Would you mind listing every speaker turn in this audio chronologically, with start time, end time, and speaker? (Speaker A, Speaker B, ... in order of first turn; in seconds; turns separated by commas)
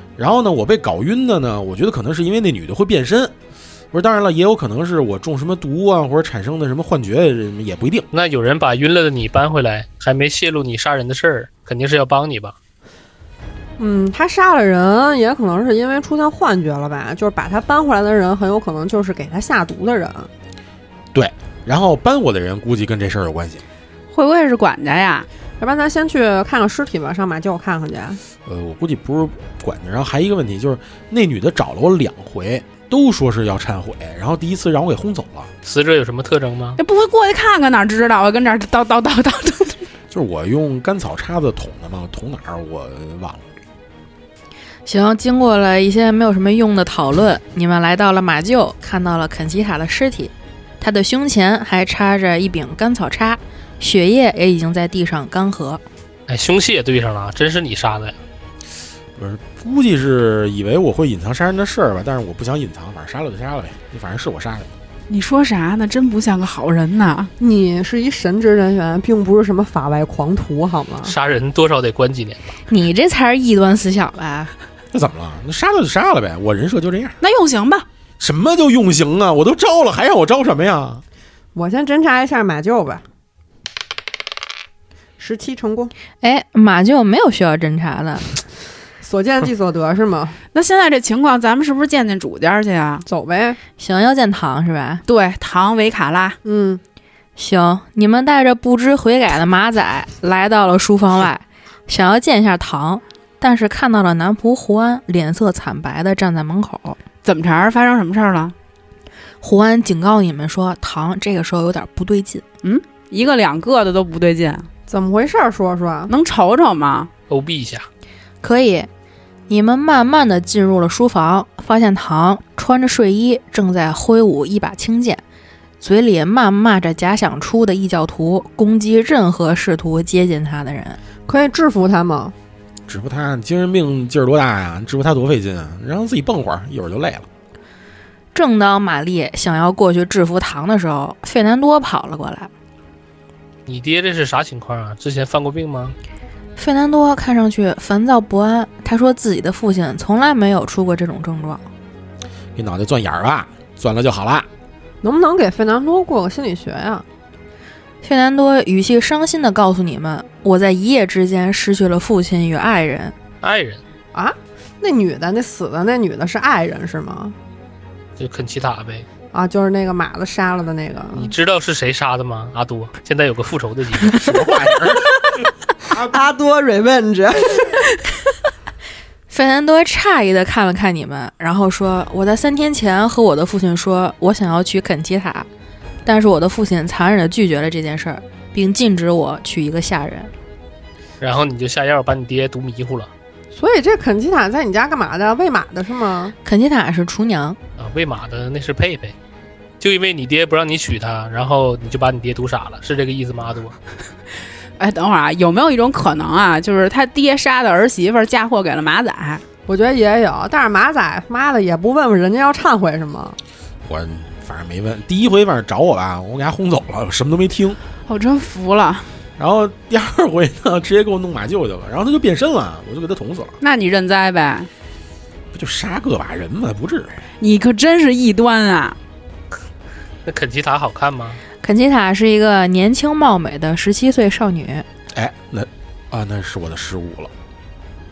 Speaker A: 0.2-3.3, Speaker A: 3.9-8.1, Speaker B: 8.1-12.5, Speaker C: 13.8-20.3, Speaker A: 21.1-23.6, Speaker D: 24.1-25.3, Speaker C: 25.6-28.2, Speaker A: 28.4-35.5, Speaker B: 35.6-36.8, Speaker D: 36.8-39.8, Speaker A: 40.1-43.4, Speaker E: 44.9-55.8, Speaker B: 56.3-58.2, Speaker A: 59.1-64.7, Speaker D: 65.1-67.3, Speaker C: 67.4-71.1, Speaker B: 71.0-72.5, Speaker E: 72.7-74.5, Speaker A: 74.9-77.2, Speaker D: 77.2-77.8, Speaker A: 78.2-81.0, Speaker C: 81.5-83.0, Speaker C: 85.2-85.9, Speaker E: 86.2-88.3, Speaker C: 89.0-90.4, Speaker D: 90.5-93.0, Speaker C: 93.0-93.6, Speaker E: 93.8-95.0, Speaker D: 95.0-96.4, Speaker C: 96.4-96.8, Speaker E: 97.4-107.0, Speaker D: 107.2-108.5, Speaker E: 109.4-112.4, Speaker D: 112.6-114.7, Speaker C: 114.9-116.1, Speaker D: 116.1-117.1, Speaker B: 117.3-117.9, Speaker E: 118.4-118.9, Speaker E: 119.5-125.2, Speaker E: 125.8-131.0, Speaker C: 131.2-132.3, Speaker A: 132.9-137.2, Speaker E: 138.3-142.5, Speaker B: 143.7-145.9, Speaker E: 146.6-151.6, Speaker A: 152.6-154.5, Speaker C: 155.0-157.0, Speaker E: 158.0-163.1, Speaker B: 163.4-163.8, Speaker C: 164.1-167.3, Speaker B: 168.2-169.1, Speaker C: 169.3-171.3, Speaker B: 171.1-174.5, Speaker A: 174.1-175.2, Speaker A: 175.9-176.2, Speaker C: 176.0-177.8, Speaker E: 179.3-185.5, Speaker E: 186.1-190.3, Speaker B: 191.2-193.1, Speaker C: 193.5-196.3, Speaker E: 196.4-197.6, Speaker B: 197.8-199.1, Speaker B: 199.8-203.8, Speaker D: 204.8-209.4, Speaker C: 209.7-213.4, Speaker A: 213.8-217.8, Speaker D: 218.1-219.2, Speaker A: 219.4-223.5, Speaker D: 223.6-224.7, Speaker A: 225.5-227.2, Speaker D: 227.4-229.0, Speaker B: 230.2-231.4, Speaker E: 231.6-234.8, Speaker A: 235.1-237.3